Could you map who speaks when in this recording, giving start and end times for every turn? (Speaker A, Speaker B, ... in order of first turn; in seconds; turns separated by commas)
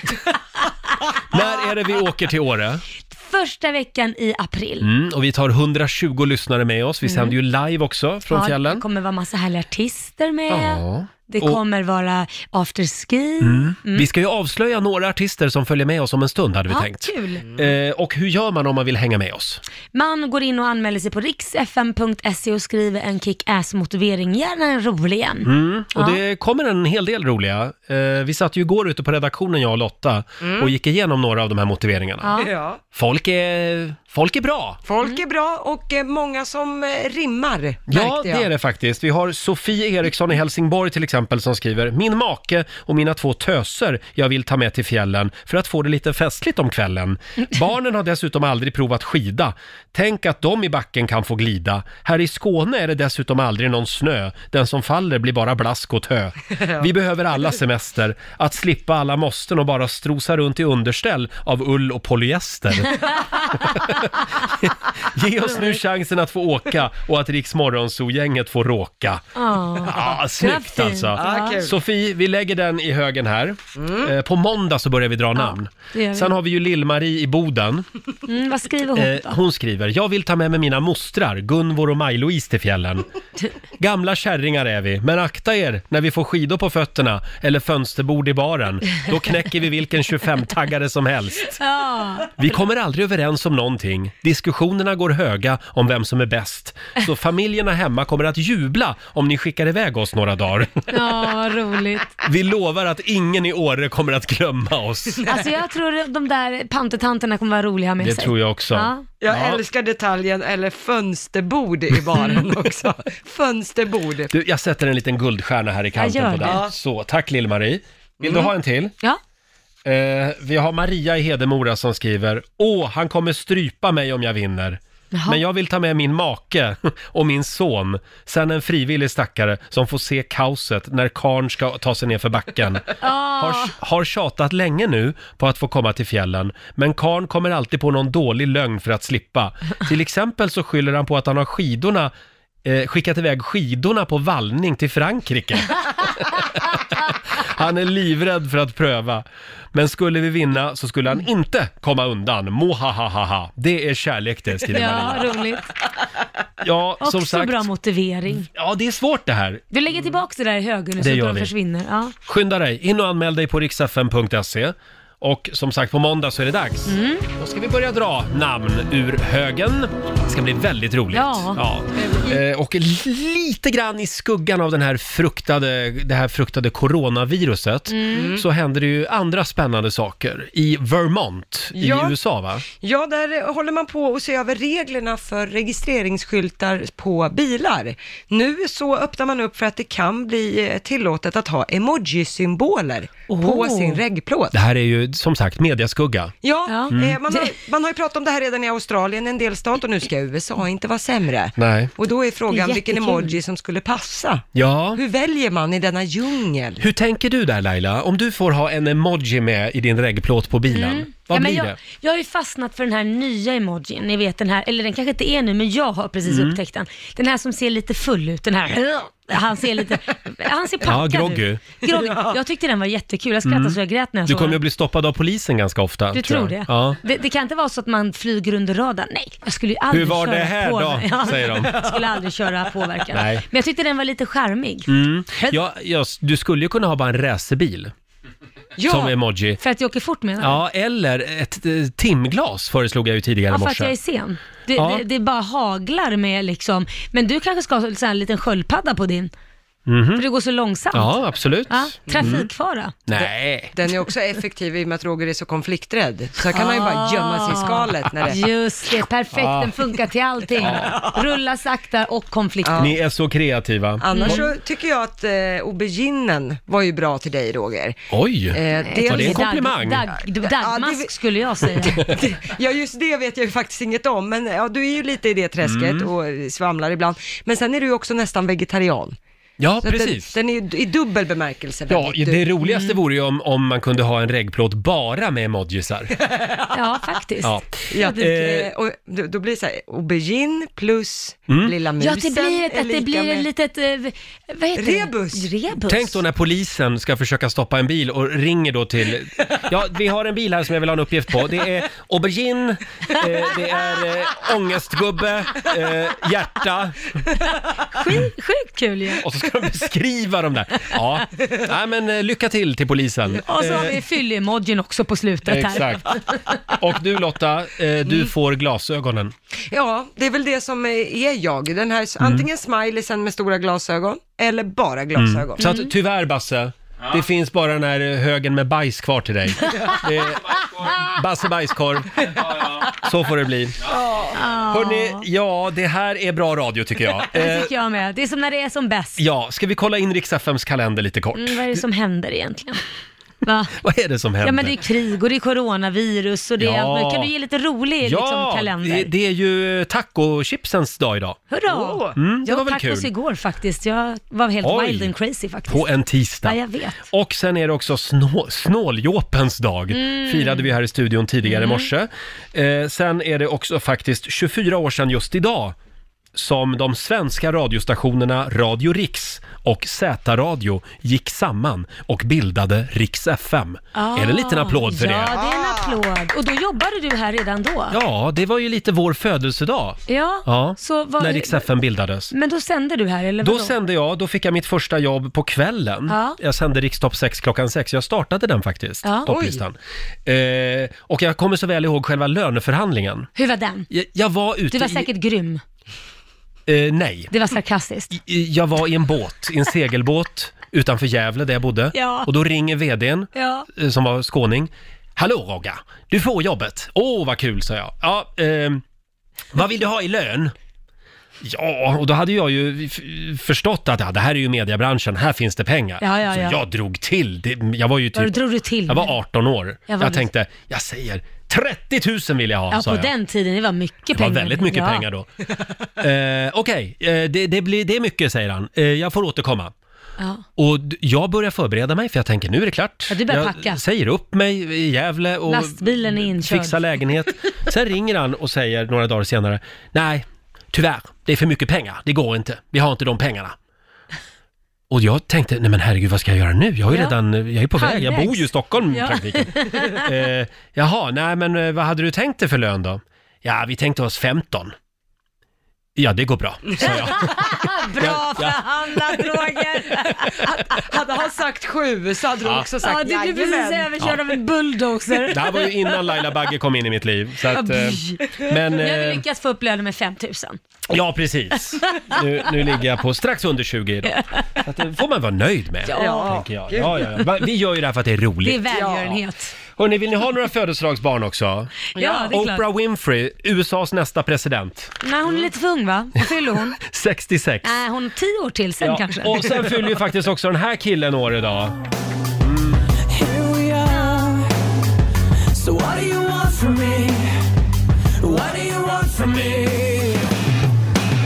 Speaker A: 1.3-2.8, Speaker B: 3.1-4.9, Speaker A: 4.8-8.8, Speaker B: 7.0-7.3, Speaker B: 8.3-14.1, Speaker A: 10.5-11.6, Speaker A: 13.4-19.6, Speaker B: 16.7-17.4, Speaker B: 19.9-26.2, Speaker A: 25.4-32.3, Speaker C: 30.4-30.7, Speaker B: 32.2-32.5, Speaker C: 32.3-32.8, Speaker A: 32.9-34.8, Speaker C: 34.8-38.5, Speaker A: 37.9-69.2, Speaker B: 65.5-65.8, Speaker B: 69.3-71.6, Speaker A: 69.8-77.9, Speaker C: 71.1-71.7, Speaker C: 73.8-74.1, Speaker B: 75.3-76.3, Speaker B: 78.3-79.4, Speaker A: 78.9-83.0, Speaker A: 83.8-91.6, Speaker B: 91.6-92.3, Speaker A: 92.4-100.9, Speaker B: 100.9-102.2, Speaker A: 102.2-105.2, Speaker B: 105.3-109.0, Speaker A: 108.0-109.6, Speaker C: 109.2-114.3, Speaker B: 112.2-112.4, Speaker A: 114.3-118.9, Speaker B: 116.0-116.6, Speaker C: 116.4-116.7, Speaker A: 119.8-142.1, Speaker B: 125.1-125.4, Speaker B: 133.0-133.7, Speaker A: 142.6-155.3, Speaker B: 154.7-155.6, Speaker A: 156.6-157.6, Speaker B: 157.0-158.5, Speaker A: 158.5-159.6, Speaker B: 159.7-162.1, Speaker A: 161.0-161.5, Speaker A: 162.2-182.6, Speaker B: 166.9-167.3, Speaker B: 171.1-171.6, Speaker C: 172.0-172.3, Speaker B: 177.9-178.3, Speaker C: 178.1-178.4, Speaker C: 181.7-182.1, Speaker C: 182.7-194.6, Speaker B: 193.3-194.0, Speaker A: 194.5-196.3, Speaker C: 196.4-206.8, Speaker B: 196.7-197.5, Speaker A: 196.9-197.2, Speaker A: 201.6-201.9, Speaker B: 202.5-203.4, Speaker A: 204.5-205.0, Speaker A: 206.8-211.8, Speaker B: 210.7-224.6, Speaker A: 216.3-216.6, Speaker A: 220.8-221.6, Speaker C: 221.9-222.3, Speaker A: 223.4-227.0, Speaker B: 226.1-235.6, Speaker A: 229.9-231.8, Speaker A: 233.1-233.4, Speaker A: 234.9-237.9, Speaker C: 238.8-239.1, Speaker A: 238.9-239.6, Speaker B: 239.6-240.6, Speaker A: 240.4-243.9, Speaker B: 243.5-249.3, Speaker A: 244.8-245.0, Speaker A: 249.9-250.2, Speaker B: 250.2-252.9, Speaker A: 250.9-252.5, Speaker C: 252.1-252.4, Speaker A: 253.1-253.7, Speaker C: 253.7-258.4, Speaker B: 256.5-262.9, Speaker A: 259.3-259.7, Speaker A: 260.6-261.0, Speaker C: 260.6-261.0, Speaker C: 262.6-262.9, Speaker A: 262.8-264.4, Speaker C: 264.0-269.4, Speaker B: 264.1-264.5, Speaker A: 268.1-270.0, Speaker B: 268.9-272.1, Speaker C: 270.4-279.1, Speaker A: 275.6-276.1, Speaker A: 279.6-280.3, Speaker C: 279.8-282.5, Speaker A: 281.9-286.1, Speaker B: 282.6-282.9, Speaker C: 286.2-286.7, Speaker B: 286.7-287.6, Speaker A: 287.4-288.7, Speaker C: 287.9-293.5, Speaker A: 291.5-291.7, Speaker B: 292.0-296.2, Speaker C: 294.7-295.5, Speaker A: 295.9-307.0, Speaker B: 307.9-309.2, Speaker A: 309.2-313.9, Speaker B: 313.5-316.6, Speaker A: 315.5-316.0, Speaker A: 316.7-319.3, Speaker C: 319.7-325.7, Speaker A: 322.2-322.4, Speaker A: 325.2-333.8, Speaker B: 325.6-325.9, Speaker C: 333.9-334.4, Speaker B: 334.3-335.2, Speaker A: 334.7-337.7, Speaker B: 337.3-339.2, Speaker A: 339.2-341.8, Speaker B: 341.3-342.8, Speaker B: 343.4-343.8, Speaker A: 343.8-344.7, Speaker B: 344.4-349.1, Speaker A: 346.6-347.3, Speaker A: 348.0-351.5, Speaker B: 351.5-355.9, Speaker A: 352.1-353.1, Speaker A: 354.6-355.1, Speaker A: 355.7-356.6, Speaker B: 356.4-357.1, Speaker A: 357.1-365.8, Speaker B: 359.9-360.7, Speaker B: 361.4-361.9, Speaker A: 366.3-375.4, Speaker B: 373.9-378.0, Speaker A: 377.9-382.3, Speaker B: 380.1-381.7, Speaker B: 382.3-383.7, Speaker A: 383.4-393.3, Speaker B: 386.1-386.4, Speaker B: 389.0-389.3, Speaker C: 389.3-389.6, Speaker B: 393.4-393.9, Speaker A: 393.9-395.1, Speaker B: 394.7-395.6, Speaker A: 396.7-397.3, Speaker B: 397.3-398.1, Speaker A: 398.1-408.8, Speaker B: 401.9-402.3, Speaker B: 403.3-403.7, Speaker A: 409.5-410.5, Speaker A: 411.4-418.4, Speaker B: 416.0-416.6, Speaker B: 418.1-419.1, Speaker A: 418.9-423.1, Speaker B: 419.9-420.3, Speaker B: 422.7-425.1, Speaker A: 424.1-425.3, Speaker A: 426.0-429.7, Speaker B: 430.2-430.4, Speaker A: 430.6-443.6, Speaker B: 433.1-433.8, Speaker B: 435.5-437.0, Speaker A: 444.9-454.7, Speaker B: 447.8-450.1, Speaker A: 455.9-458.6, Speaker B: 456.8-460.6, Speaker C: 460.4-463.9, Speaker B: 462.8-466.0, Speaker A: 465.3-469.2, Speaker B: 467.5-470.6, Speaker A: 470.9-478.9, Speaker B: 474.1-474.6, Speaker B: 475.9-476.4, Speaker C: 475.9-477.2, Speaker B: 478.4-479.5, Speaker C: 478.7-479.1, Speaker A: 479.8-484.9, Speaker B: 481.9-482.6, Speaker B: 485.0-486.8, Speaker A: 486.8-487.8, Speaker B: 487.6-489.7, Speaker A: 488.8-491.7, Speaker A: 492.4-492.8, Speaker D: 493.1-494.5, Speaker D: 495.5-497.4, Speaker D: 498.2-500.3